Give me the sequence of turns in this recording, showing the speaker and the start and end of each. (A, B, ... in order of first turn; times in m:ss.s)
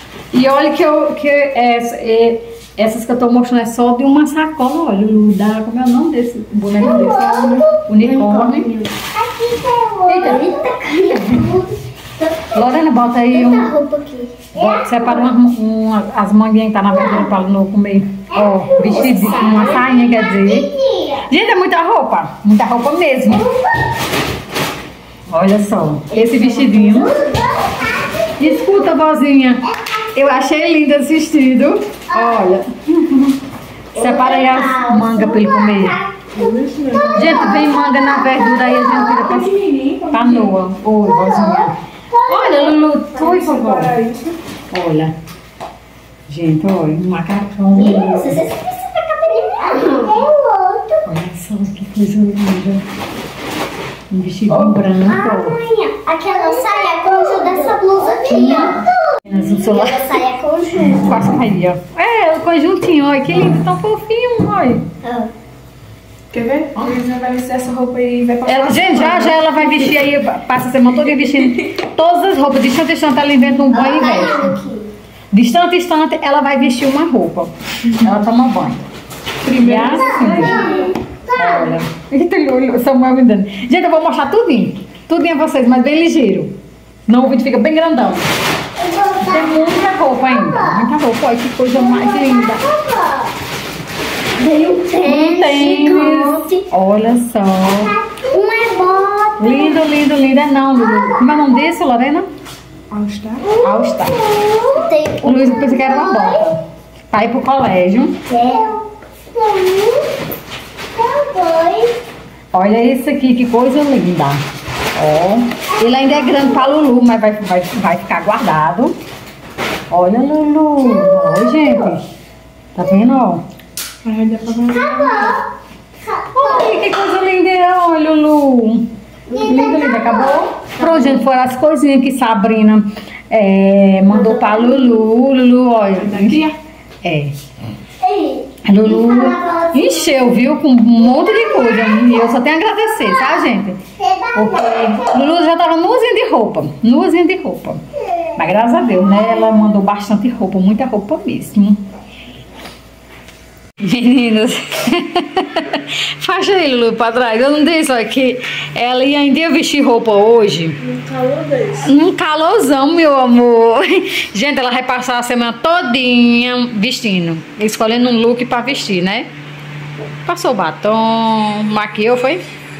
0:00.3-0:08.7 A
0:06.8-0:12.7 B
0:10.1-0:10.5 A
0:12.5-0:13.7 A
0:13.3-0:15.3 B
0:14.5-0:20.7 A
0:17.0-0:17.2 B
0:18.4-0:21.2 B
0:21.2-0:23.5 A
0:25.3-0:27.2 A
0:26.1-0:28.8 B
0:28.4-0:33.4 A
0:33.9-0:36.0 A
0:33.9-0:36.0 B
0:36.3-0:37.6 C
0:37.0-0:39.1 B
0:37.1-0:39.6 A
0:39.0-0:40.5 C
0:40.1-0:41.7 A
0:41.0-0:42.7 B
0:42.2-0:43.9 A
0:43.1-0:44.4 C
0:44.7-0:45.1 A
0:46.3-0:48.4 A
0:47.7-0:51.0 B
0:51.0-0:52.8 A
0:54.1-0:55.6 A
0:54.5-0:54.8 C
0:55.0-1:01.2 B
0:58.3-0:58.7 A
0:59.2-1:00.2 A
1:00.8-1:04.8 A
1:05.0-1:05.3 B
1:06.3-1:10.0 C
1:08.4-1:14.6 A
1:11.4-1:11.6 C
1:13.7-1:14.9 B
1:15.3-1:18.8 A
1:19.4-1:20.9 C
1:19.6-1:20.7 A
1:19.8-1:21.8 B
1:21.3-1:26.5 A
1:27.1-1:28.2 A
1:28.8-1:30.8 B
1:29.2-1:32.6 A
1:31.7-1:33.3 B
1:34.4-1:36.6 B
1:35.0-1:38.0 A
1:37.7-1:39.8 B
1:39.4-1:42.3 A
1:40.9-1:41.5 B
1:42.9-1:43.5 C
1:43.4-1:46.4 B
1:43.6-1:44.2 A
1:45.2-1:46.6 A
1:47.1-1:48.2 A
1:48.3-1:50.1 B
1:50.9-1:52.0 B
1:52.5-1:54.4 A
1:55.0-1:58.9 A
1:59.9-2:02.0 A
2:01.0-2:01.7 B
2:02.7-2:03.4 A
2:04.0-2:05.4 C
2:04.7-2:05.4 B
2:06.0-2:06.8 B
2:06.3-2:16.5 A
2:09.3-2:11.2 B
2:14.1-2:15.0 B
2:16.0-2:16.6 C
2:17.0-2:17.3 A
2:18.0-2:20.3 B
2:18.6-2:23.8 A
2:21.1-2:22.2 B
2:24.0-2:25.2 B
2:24.3-2:27.8 A
2:28.4-2:31.8 A
2:33.8-2:40.8 A
2:40.8-2:41.9 C
2:41.8-2:49.3 A
2:50.2-2:52.4 A